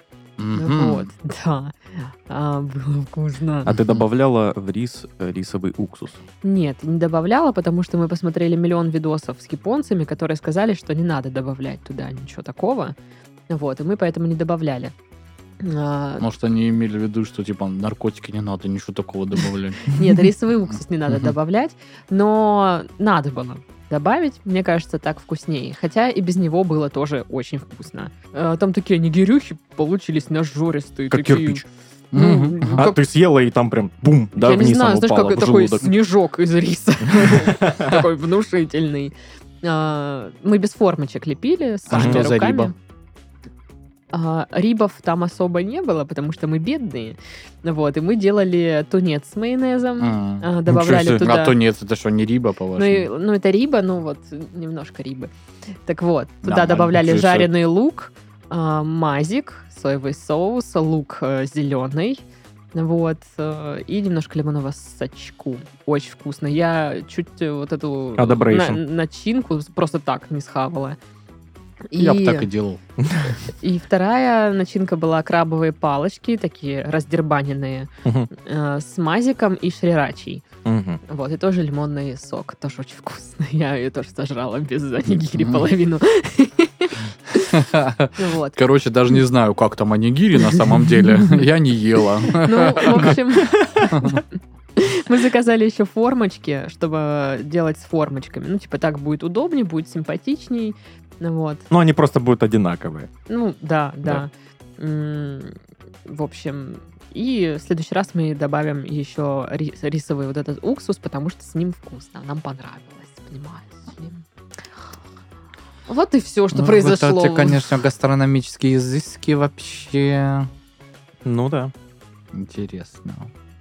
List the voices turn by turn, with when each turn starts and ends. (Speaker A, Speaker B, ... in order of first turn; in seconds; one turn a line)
Speaker A: 0.4-1.1
Speaker B: 0.5-3.7
Speaker C: 3.6-6.2
Speaker A: 3.8-4.0
Speaker B: 6.4-12.9
Speaker B: 13.5-14.9
Speaker B: 15.6-16.2
Speaker A: 16.2-19.9
Speaker B: 19.9-31.6
Speaker C: 31.1-31.6
Speaker A: 32.1-32.9
Speaker B: 32.1-33.0
Speaker C: 32.7-35.9
Speaker B: 34.4-42.7
Speaker C: 37.2-38.0
Speaker A: 41.9-42.7
Speaker C: 41.9-42.2
Speaker B: 44.1-51.6
Speaker A: 50.0-53.1
Speaker B: 52.8-55.3
Speaker B: 55.9-71.0
Speaker A: 56.4-57.5
Speaker C: 68.2-68.8
Speaker B: 71.9-72.5
Speaker A: 72.0-72.8
Speaker C: 73.0-73.3
Speaker B: 73.4-80.4
Speaker C: 78.0-78.3
Speaker C: 80.6-81.0
Speaker B: 81.0-87.6
Speaker A: 87.5-93.1
Speaker B: 88.2-88.6
Speaker B: 92.3-94.2
Speaker C: 93.4-93.9
Speaker A: 93.9-94.2
Speaker B: 94.8-101.7
Speaker C: 101.7-103.1
Speaker B: 103.3-114.2
Speaker B: 115.9-117.6
Speaker A: 116.5-120.5
Speaker C: 121.2-121.7
Speaker A: 122.3-123.3